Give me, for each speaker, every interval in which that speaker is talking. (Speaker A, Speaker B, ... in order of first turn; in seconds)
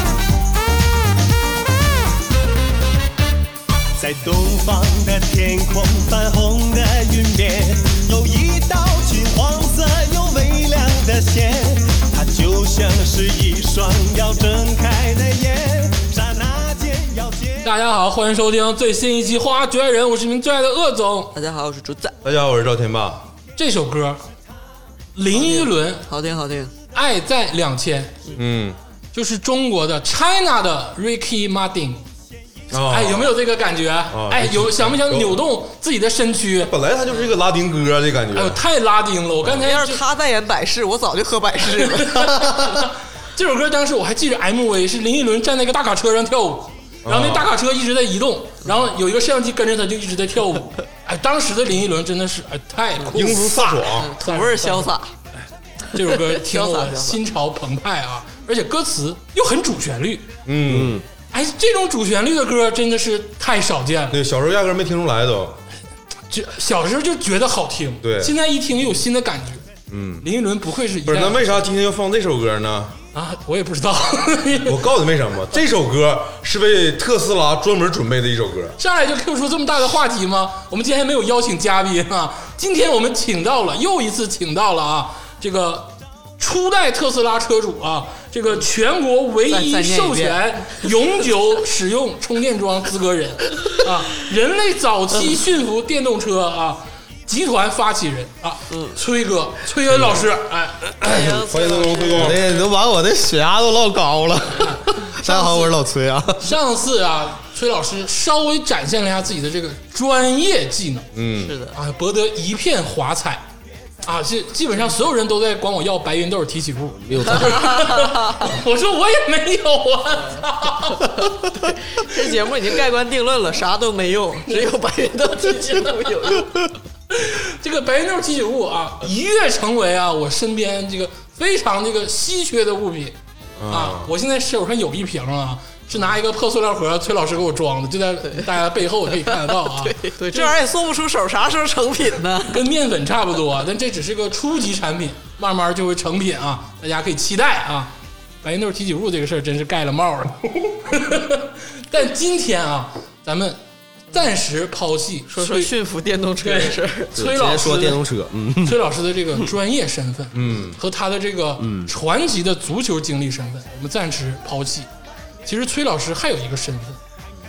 Speaker A: 4.0-17.7
Speaker B: 17.6-21.3, 23.6-24.2, 25.1-26.0, 26.9-28.3, 29.1-32.0, 32.8-36.7, 38.3-40.0, 41.8-54.9, 55.9-60.3, 61.3-64.2, 66.3-69.6, 70.2-71.6, 73.1-74.9, 78.8-100.9, 104.6-105.0, 106.4-111.1, 111.7-113.5, 114.0-121.3, 127.1-133.2, 133.7-140.5, 142.5-155.7, 156.4-158.0, 158.6-164.9, 165.4-167.0
Speaker C: 21.3-22.2, 25.3-26.7, 39.5-42.3, 53.9-55.1, 56.0-57.2, 89.5-90.4, 98.7-99.0, 101.0-102.5, 105.2-105.7, 111.4-111.8, 117.4-118.5, 121.5-126.7, 138.2-138.5, 139.1-142.7, 155.3-157.1
Speaker D: 22.2-23.3, 28.3-28.8, 32.7-33.3, 34.1-35.4, 36.6-38.6, 47.0-47.5, 53.1-54.1, 60.5-61.0, 64.1-65.6, 68.0-68.3, 69.9-70.3, 71.0-73.0, 74.6-78.8, 101.2-102.5, 111.1-111.6, 133.6-134.1, 160.3-160.8
Speaker E: 60.7-61.0, 101.0-101.4, 102.1-106.5, 117.0-117.8, 157.2-158.8, 161.6-161.9